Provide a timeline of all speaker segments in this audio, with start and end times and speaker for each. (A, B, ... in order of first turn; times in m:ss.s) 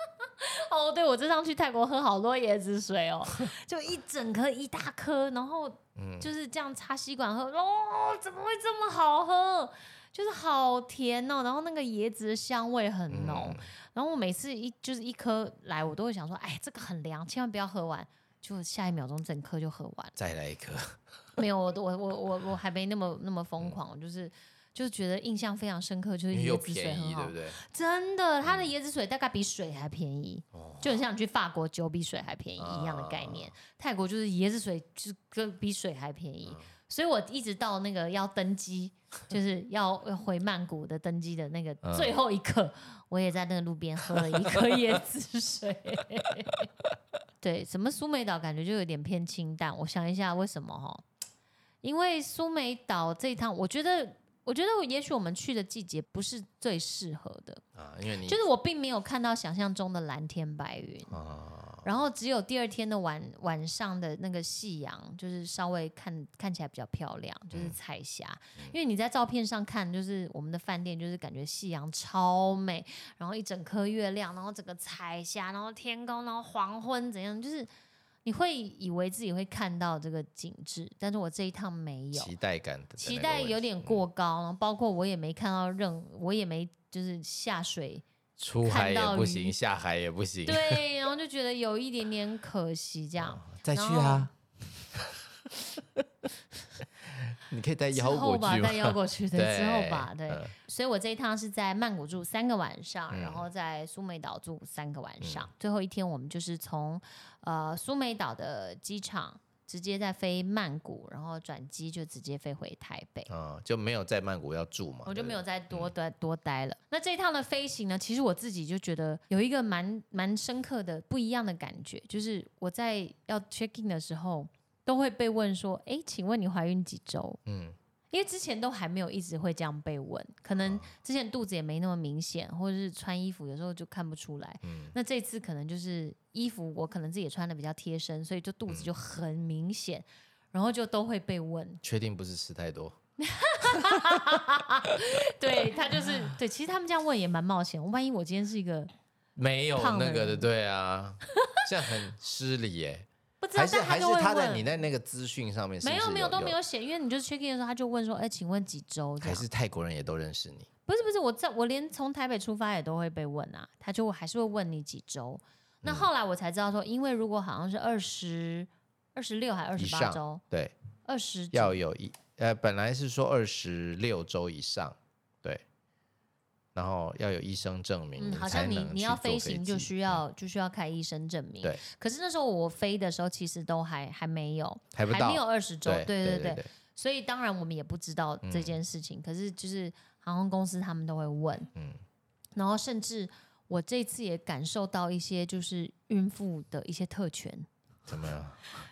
0:00.4-0:20.2 A
0:06.0-0:06.3 B
0:13.1-0:13.7 B
0:20.2-0:21.0 B
0:21.4-0:46.6 A
0:26.3-0:27.6 B
0:28.4-0:28.7 B
0:30.5-0:31.0 B
0:32.6-0:33.6 B
0:41.8-0:42.2 B
0:44.1-0:44.8 B
0:47.4-0:51.0 A
0:51.8-0:57.6 A
0:57.8-0:58.4 B
0:58.3-1:01.2 A
1:01.1-1:01.9 B
1:01.8-1:17.7 A
1:18.2-1:22.3 A
1:22.1-1:24.0 B
1:23.0-1:28.0 A
1:28.4-1:30.8 B
1:28.6-1:29.6 A
1:30.4-1:34.3 A
1:33.2-1:34.3 B
1:34.9-1:36.0 B
1:36.8-1:40.5 B
1:37.9-1:53.3 A
1:43.1-1:43.5 B
1:45.2-1:45.5 B
1:53.3-1:55.9 B
1:55.1-2:07.4 A
2:07.5-2:07.8 B
2:08.1-2:21.8 A
2:10.6-2:10.9 B
2:14.6-2:15.0 B
2:21.8-2:23.0 B
2:23.2-2:28.9 A
2:23.7-2:24.2 B
2:29.4-2:36.6 B
2:29.8-2:30.5 A
2:33.4-2:34.7 A
2:35.8-2:39.4 A
2:39.2-2:40.7 B
2:40.9-2:50.4 A
2:45.8-2:46.1 B
2:49.8-2:50.7 B
2:51.1-2:51.8 A
2:51.5-2:55.6 B
2:56.8-3:00.2 B
2:58.2-3:11.7 A
3:04.9-3:06.7 B
3:08.4-3:08.8 B
3:11.8-3:12.0 B
3:12.6-3:17.7 A
3:18.1-3:18.6 B